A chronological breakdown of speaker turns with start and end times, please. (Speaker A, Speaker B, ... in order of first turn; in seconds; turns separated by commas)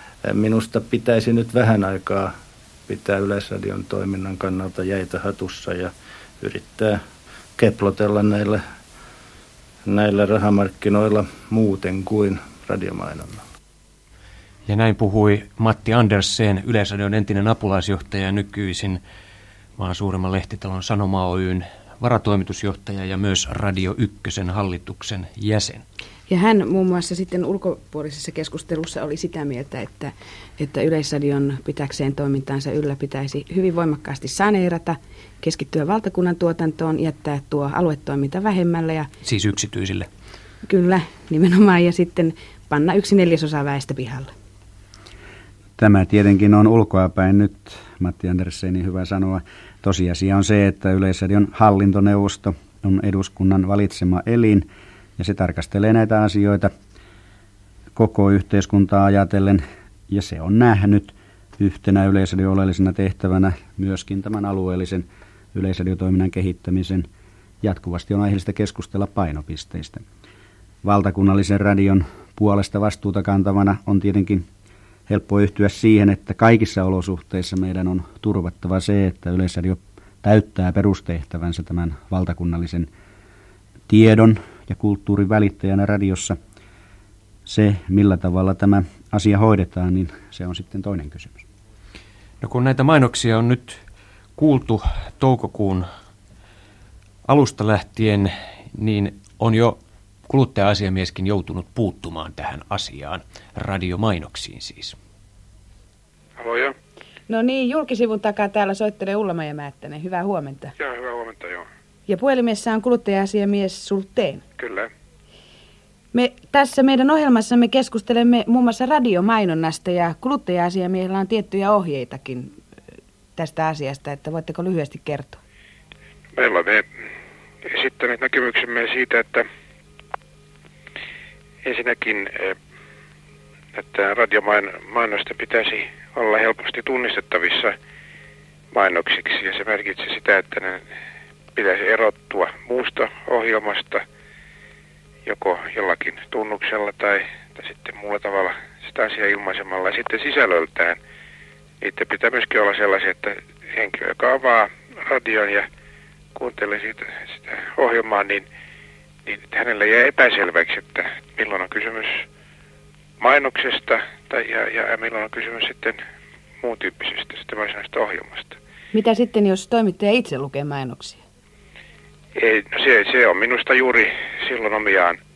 Speaker A: 0.2-2.4, Speaker A: 2.9-7.0, Speaker A: 7.6-8.6, Speaker A: 9.9-13.4, Speaker B: 14.7-19.0, Speaker B: 19.8-25.8, Speaker C: 26.3-39.1, Speaker B: 39.2-40.1, Speaker C: 40.7-44.3, Speaker D: 45.8-54.7, Speaker D: 55.2-56.7, Speaker D: 58.0-67.1, Speaker D: 67.6-70.0, Speaker D: 70.8-74.5, Speaker D: 75.1-82.9, Speaker D: 83.9-86.4, Speaker D: 87.5-91.4, Speaker B: 92.4-93.8, Speaker B: 94.4-95.9, Speaker B: 97.2-105.0, Speaker E: 106.4-106.8, Speaker C: 107.3-110.7, Speaker E: 110.8-111.7, Speaker C: 112.1-114.4, Speaker E: 114.6-114.9, Speaker C: 116.1-122.6, Speaker C: 123.4-125.4, Speaker E: 126.3-126.9, Speaker E: 127.6-129.5, Speaker E: 131.6-132.6, Speaker E: 133.7-137.8, Speaker E: 138.7-140.9, Speaker E: 141.6-144.1, Speaker E: 145.3-151.0, Speaker E: 151.8-155.7, Speaker E: 156.3-158.5, Speaker E: 159.3-162.3, Speaker E: 163.2-166.0, Speaker E: 166.6-168.6, Speaker C: 168.9-171.2, Speaker E: 172.3-175.2